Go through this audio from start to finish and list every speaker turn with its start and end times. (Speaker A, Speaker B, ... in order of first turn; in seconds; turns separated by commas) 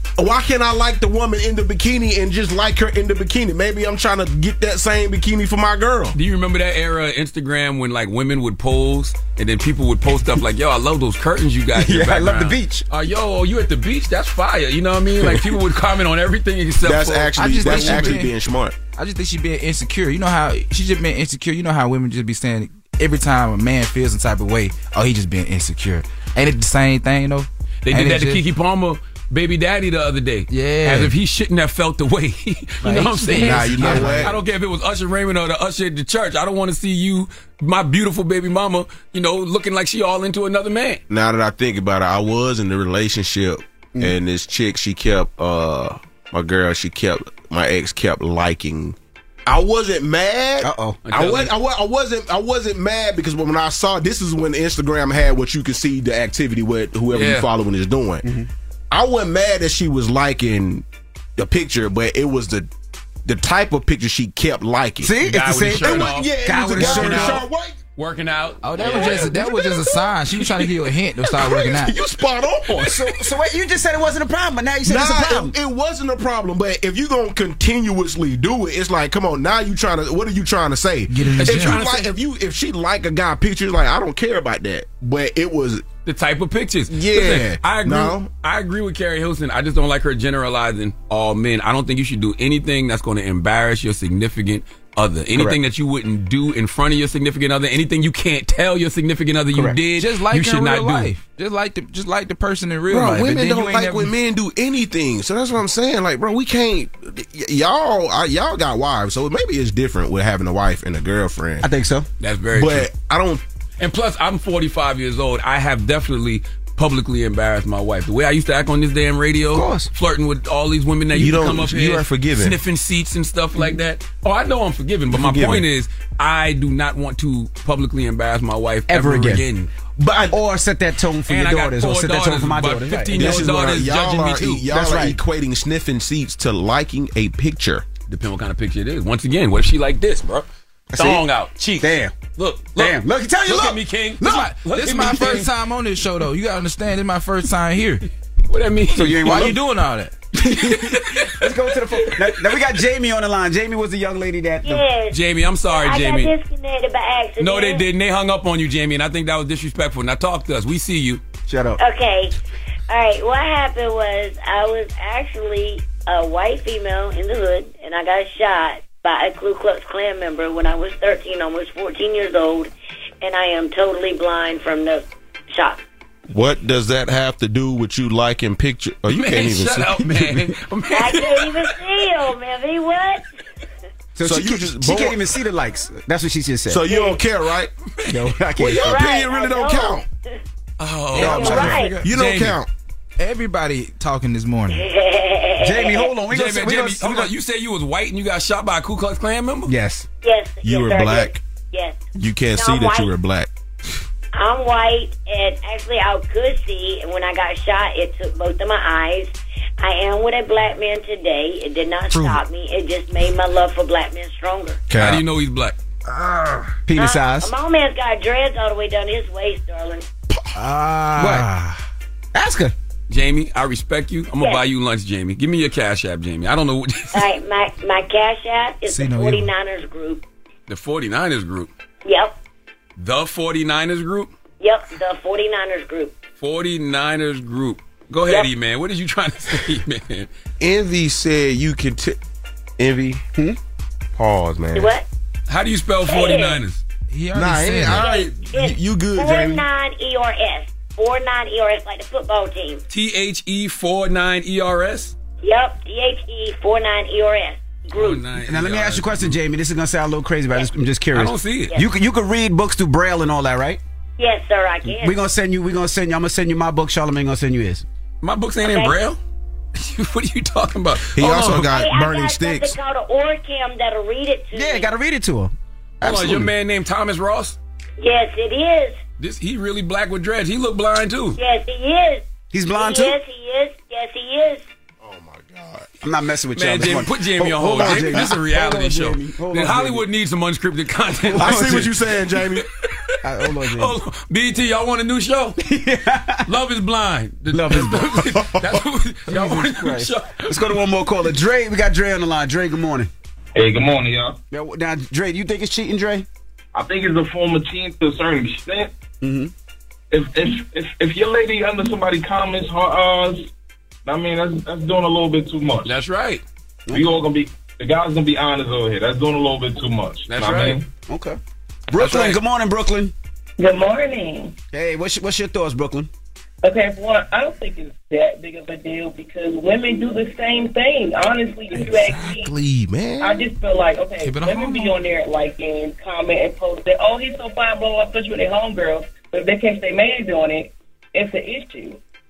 Speaker A: 0.2-6.2, Speaker B: 6.1-18.2, Speaker C: 11.7-12.8, Speaker A: 16.8-18.8, Speaker D: 17.3-18.3, Speaker D: 18.9-28.4, Speaker B: 27.8-41.0, Speaker D: 30.5-31.1, Speaker D: 32.8-34.3, Speaker A: 33.3-34.4, Speaker A: 41.1-58.2, Speaker C: 50.6-51.0, Speaker B: 51.0-51.5, Speaker B: 57.1-57.5, Speaker C: 58.2-58.5, Speaker A: 58.9-62.7, Speaker A: 63.2-67.8, Speaker C: 65.0-67.4, Speaker B: 65.2-69.4, Speaker D: 68.6-72.0, Speaker A: 68.8-70.7, Speaker A: 71.2-73.3, Speaker C: 72.7-75.5, Speaker A: 74.8-85.8, Speaker D: 81.1-81.8, Speaker B: 81.4-82.1, Speaker B: 86.0-101.1, Speaker A: 86.9-88.3, Speaker D: 100.0-104.1, Speaker A: 102.9-111.7, Speaker C: 111.6-112.1, Speaker B: 112.2-112.9, Speaker A: 112.5-113.4, Speaker B: 113.8-129.7, Speaker C: 119.5-119.9, Speaker A: 121.1-122.6, Speaker C: 125.2-125.6, Speaker C: 128.9-129.4, Speaker A: 130.0-130.4, Speaker C: 130.3-133.5, Speaker B: 131.3-134.7, Speaker A: 133.1-137.8, Speaker C: 134.7-135.2, Speaker B: 138.1-145.5, Speaker C: 140.9-141.2, Speaker C: 141.8-142.2, Speaker C: 142.7-144.5, Speaker D: 144.2-148.0, Speaker B: 148.5-149.5, Speaker C: 148.9-149.6, Speaker D: 149.2-150.2, Speaker C: 150.4-154.8, Speaker B: 150.5-152.5, Speaker E: 154.6-157.8, Speaker B: 155.1-156.3, Speaker B: 157.4-161.2, Speaker C: 161.5-161.8, Speaker E: 161.8-162.3, Speaker E: 162.9-172.7, Speaker E: 173.2-175.8, Speaker A: 176.3-180.1, Speaker B: 179.1-181.8, Speaker E: 180.9-183.2, Speaker C: 184.2-186.9, Speaker A: 184.2-185.2, Speaker A: 186.7-187.7, Speaker E: 186.9-187.2, Speaker C: 188.1-189.0, Speaker A: 188.6-190.1, Speaker E: 188.8-190.3, Speaker B: 190.8-192.6, Speaker D: 191.2-191.9, Speaker C: 191.2-191.9, Speaker A: 191.2-192.7, Speaker E: 191.2-192.0, Speaker D: 193.2-194.8, Speaker E: 194.7-196.1, Speaker C: 195.6-197.3, Speaker B: 196.3-199.7, Speaker C: 199.7-200.1, Speaker E: 200.2-202.0, Speaker A: 200.6-201.4, Speaker A: 202.2-203.5, Speaker E: 202.6-203.1, Speaker E: 204.3-214.8, Speaker D: 212.1-212.4, Speaker A: 214.9-215.2, Speaker B: 214.9-215.8, Speaker D: 216.2-216.6, Speaker C: 216.9-217.5, Speaker E: 216.9-220.1, Speaker D: 220.5-221.8, Speaker C: 221.2-221.5, Speaker C: 222.3-222.7, Speaker B: 223.1-227.3, Speaker E: 227.1-230.2, Speaker D: 228.8-229.5, Speaker B: 230.7-231.7, Speaker E: 232.0-232.4, Speaker B: 233.0-234.3, Speaker E: 234.6-236.1, Speaker B: 236.4-240.3, Speaker A: 240.6-242.2, Speaker A: 242.8-243.2, Speaker A: 244.1-244.9, Speaker E: 244.7-245.1, Speaker B: 245.5-246.8, Speaker E: 246.1-246.6, Speaker D: 247.1-248.1, Speaker A: 247.3-249.6, Speaker E: 247.9-252.8, Speaker B: 252.9-255.1, Speaker E: 255.4-258.3, Speaker B: 257.9-259.4, Speaker C: 258.4-263.8, Speaker B: 261.1-261.7, Speaker E: 264.2-265.2, Speaker C: 264.8-267.9, Speaker B: 268.2-269.2, Speaker E: 268.6-269.0, Speaker B: 269.8-271.7, Speaker A: 271.1-272.8, Speaker E: 271.6-274.9, Speaker C: 274.5-276.5, Speaker B: 276.0-277.6, Speaker E: 278.0-279.0, Speaker B: 279.2-281.4, Speaker E: 281.4-284.6, Speaker C: 282.5-283.2, Speaker A: 285.0-285.9, Speaker C: 286.0-290.1, Speaker B: 286.5-291.9, Speaker A: 287.7-288.4, Speaker C: 291.2-291.9, Speaker A: 291.4-292.6, Speaker B: 292.5-295.6, Speaker C: 293.2-293.9, Speaker C: 295.6-296.5, Speaker B: 296.4-300.8, Speaker C: 297.5-298.4, Speaker C: 299.3-303.1, Speaker F: 303.6-304.4, Speaker C: 304.5-306.3, Speaker F: 306.7-308.9, Speaker C: 309.2-309.5, Speaker F: 310.1-313.5, Speaker F: 314.0-316.0, Speaker B: 315.8-316.4, Speaker F: 316.9-320.9, Speaker B: 320.3-320.8, Speaker C: 321.1-321.4, Speaker C: 321.9-323.1, Speaker B: 322.0-322.4, Speaker G: 323.6-324.6, Speaker C: 324.7-326.1, Speaker G: 326.6-332.5, Speaker A: 331.8-333.5, Speaker G: 333.2-342.0, Speaker D: 334.2-335.0